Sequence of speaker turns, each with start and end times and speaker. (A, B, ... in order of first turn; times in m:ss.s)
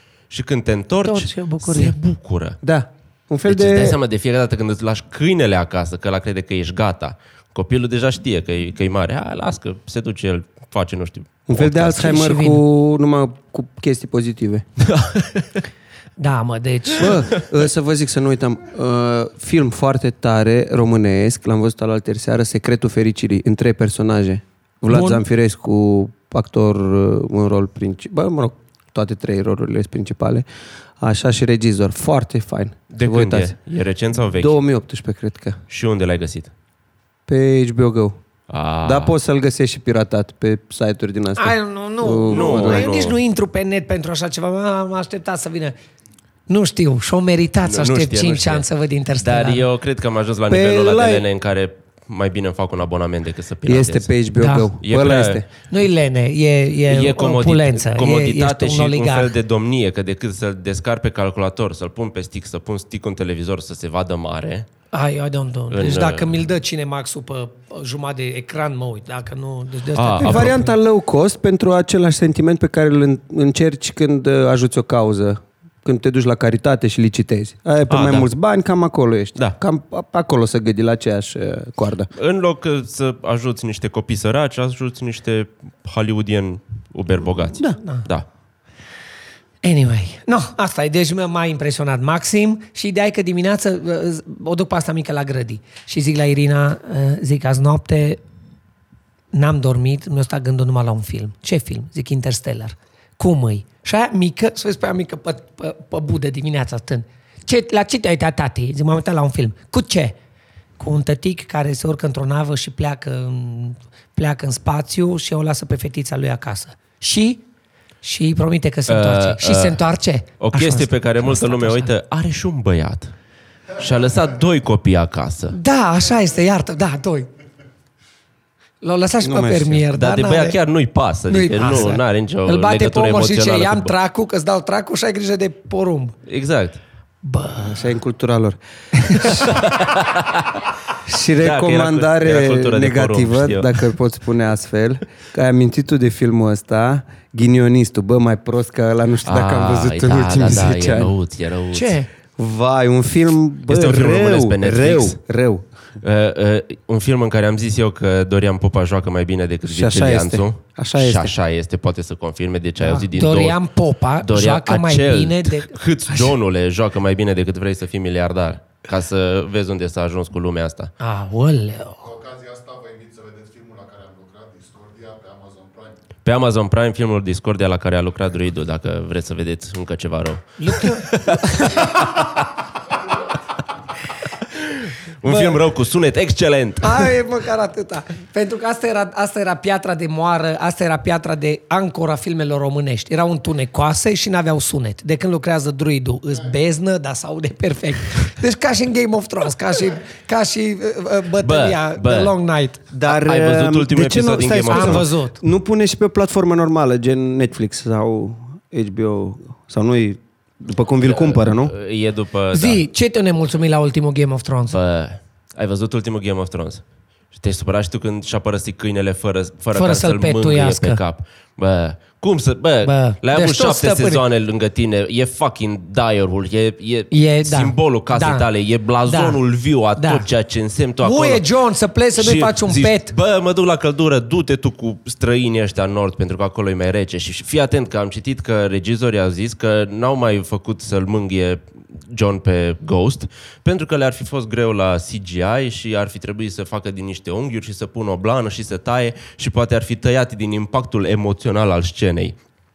0:00.3-0:02.6 A
0:01.0-0:01.9 B
0:02.6-0:04.0 C
0:03.5-0:12.2 A
0:11.5-0:14.6 C
0:11.9-0:12.6 B
0:14.9-0:15.6 A
0:16.2-0:17.2 B
0:17.0-0:30.4 C
0:24.9-0:25.2 B
0:31.0-0:33.6 C
0:32.9-0:34.6 A
0:34.3-0:35.6 C
0:35.7-0:36.5 A
0:37.3-0:38.2 C
0:38.5-0:39.1 A
0:38.8-0:42.9 C
0:41.4-0:45.8 B
0:42.3-0:43.2 A
0:46.5-0:49.6 B
0:47.6-0:48.6 A
0:49.2-0:54.1 A
0:50.5-0:51.3 C
0:53.6-0:55.4 C
0:54.4-0:54.7 B
0:54.8-0:55.4 A
0:55.7-0:59.3 B
0:56.9-1:04.7 A
1:04.9-1:10.8 B
1:05.7-1:06.3 A
1:09.9-1:10.6 A
1:10.2-1:22.1 C
1:17.9-1:18.3 A
1:22.2-1:28.2 A
1:29.6-1:38.2 B
1:39.3-1:50.2 B
1:50.8-1:57.4 B
1:58.0-2:01.9 B
1:58.9-1:59.8 A
2:00.4-2:03.1 A
2:03.8-2:05.6 A
2:05.5-2:07.3 B
2:08.8-2:10.6 B
2:09.2-2:09.8 C
2:09.9-2:13.9 A
2:11.3-2:16.1 B
2:16.3-2:16.8 A
2:17.2-2:17.8 B
2:17.6-2:18.6 C
2:19.0-2:19.5 B
2:19.1-2:19.8 C
2:19.4-2:20.6 A
2:21.0-2:31.1 C
2:21.4-2:23.9 A
2:29.2-2:32.0 A
2:31.7-2:32.1 B
2:32.4-2:35.6 C
2:33.7-2:35.2 A
2:36.0-2:43.6 A
2:39.6-2:41.3 C
2:42.8-2:46.3 B
2:44.2-2:50.9 A
2:51.0-2:52.2 B
2:56.2-3:02.4 A
3:00.6-3:01.6 B
3:04.6-3:07.1 A
3:05.2-3:05.6 B
3:06.8-3:22.8 B
3:21.4-3:22.3 A
3:22.9-3:31.7 C
3:23.0-3:25.1 A
3:24.7-3:25.4 B
3:31.0-3:32.8 A
3:32.5-3:34.8 B
3:34.7-3:36.8 A
3:37.3-3:51.4 A
3:39.8-3:41.0 B
3:42.8-3:44.2 B
3:47.1-3:48.5 B
3:49.0-3:49.4 B
3:50.0-3:50.2 B
3:51.0-3:53.1 B
3:52.1-4:12.4 A